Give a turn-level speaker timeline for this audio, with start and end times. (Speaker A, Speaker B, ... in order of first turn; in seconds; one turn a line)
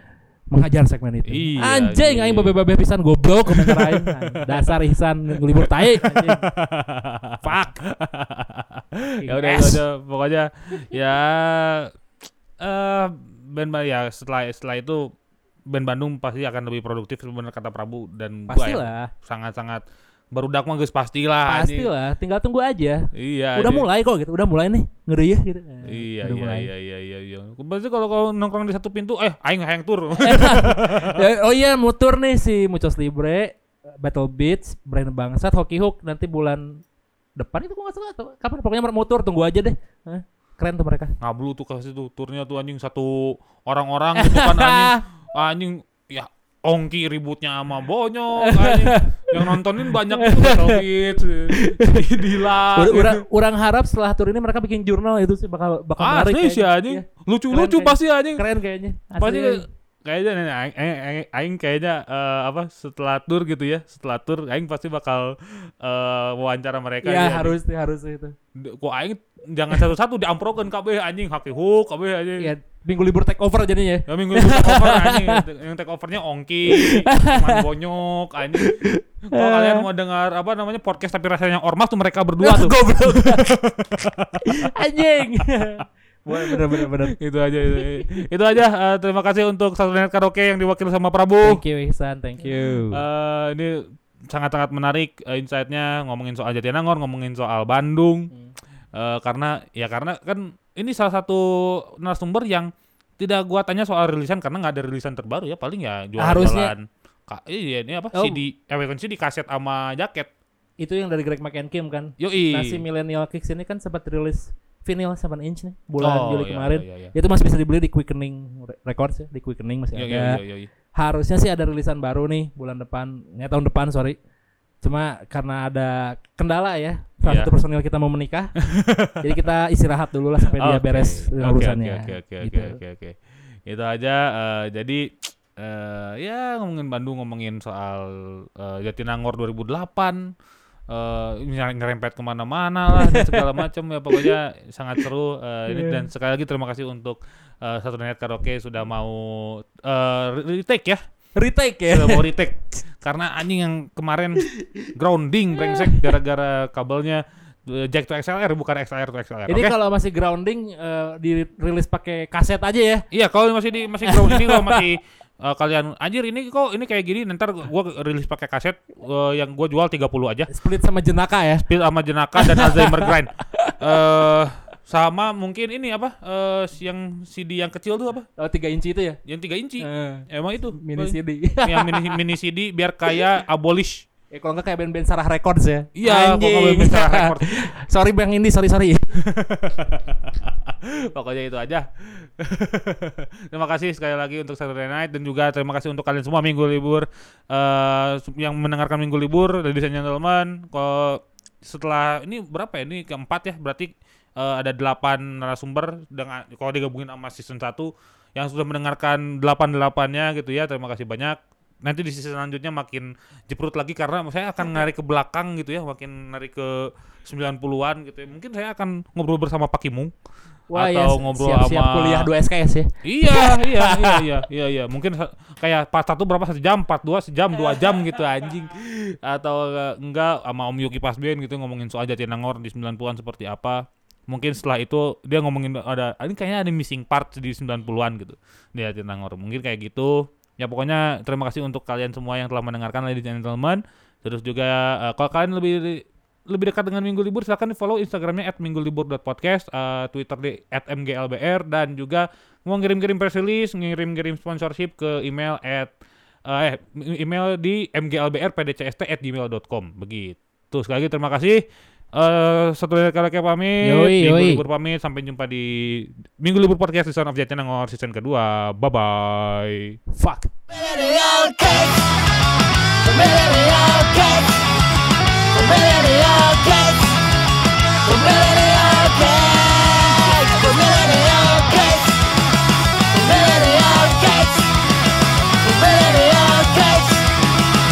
Speaker A: 0.5-6.5
Speaker B: 1.3-2.6
Speaker B: 3.5-4.7
Speaker B: 5.6-11.9
Speaker A: 7.4-7.7
Speaker A: 9.2-9.8
Speaker B: 12.6-15.1
Speaker B: 15.7-21.9
Speaker A: 18.5-19.1
Speaker A: 21.5-26.7
Speaker B: 23.1-23.9
Speaker B: 25.9-31.2
Speaker A: 30.2-36.7
Speaker A: 37.4-41.1
Speaker B: 41.2-53.2
Speaker A: 44.2-45.0
Speaker A: 48.4-49.6
Speaker A: 50.1-50.8
Speaker A: 51.5-59.6
Speaker B: 56.0-58.4
Speaker B: 59.2-67.6
Speaker A: 67.0-68.3
Speaker B: 68.6-72.5
Speaker A: 72.4-75.4
Speaker B: 74.1-78.7
Speaker A: 76.7-77.6
Speaker A: 78.6-79.9
Speaker B: 79.3-84.7
Speaker A: 82.4-83.5
Speaker A: 84.6-87.9
Speaker B: 86.3-91.6
Speaker A: 91.4-93.0
Speaker B: 92.9-93.7
Speaker B: 94.3-98.3
Speaker B: 99.0-101.4
Speaker B: 102.0-110.3
Speaker A: 106.2-106.7
Speaker A: 110.8-120.4
Speaker B: 112.2-112.8
Speaker B: 116.0-117.1
Speaker B: 120.0-120.7
Speaker A: 120.9-124.2
Speaker A: 124.8-128.6
Speaker B: 127.3-127.5
Speaker B: 128.8-129.2
Speaker A: 129.2-132.8
Speaker B: 130.6-140.2
Speaker B: 140.9-151.0
Speaker A: 143.0-143.4
Speaker A: 145.7-146.0
Speaker A: 151.4-152.3
Speaker B: 151.9-159.7
Speaker A: 154.4-154.9
Speaker A: 155.6-156.1
Speaker A: 159.5-163.1
Speaker B: 163.1-170.5
Speaker A: 164.1-164.8
Speaker A: 170.5-171.6
Speaker B: 171.6-178.3
Speaker A: 172.4-174.0
Speaker A: 178.4-179.2
Speaker B: 179.3-184.1
Speaker A: 179.8-182.2
Speaker A: 184.3-189.2
Speaker B: 185.9-187.7
Speaker B: 189.3-220.1
Speaker A: 220.7-224.2
Speaker B: 220.7-222.3
Speaker B: 223.0-255.9
Speaker B: 256.4-261.6
Speaker B: 262.1-270.0
Speaker A: 263.8-264.6
Speaker A: 270.1-270.5
Speaker C: 270.7-272.2
Speaker C: 273.0-274.6
Speaker C: 275.5-277.2
Speaker C: 278.0-282.3
Speaker C: 283.1-284.7
Speaker C: 285.6-287.3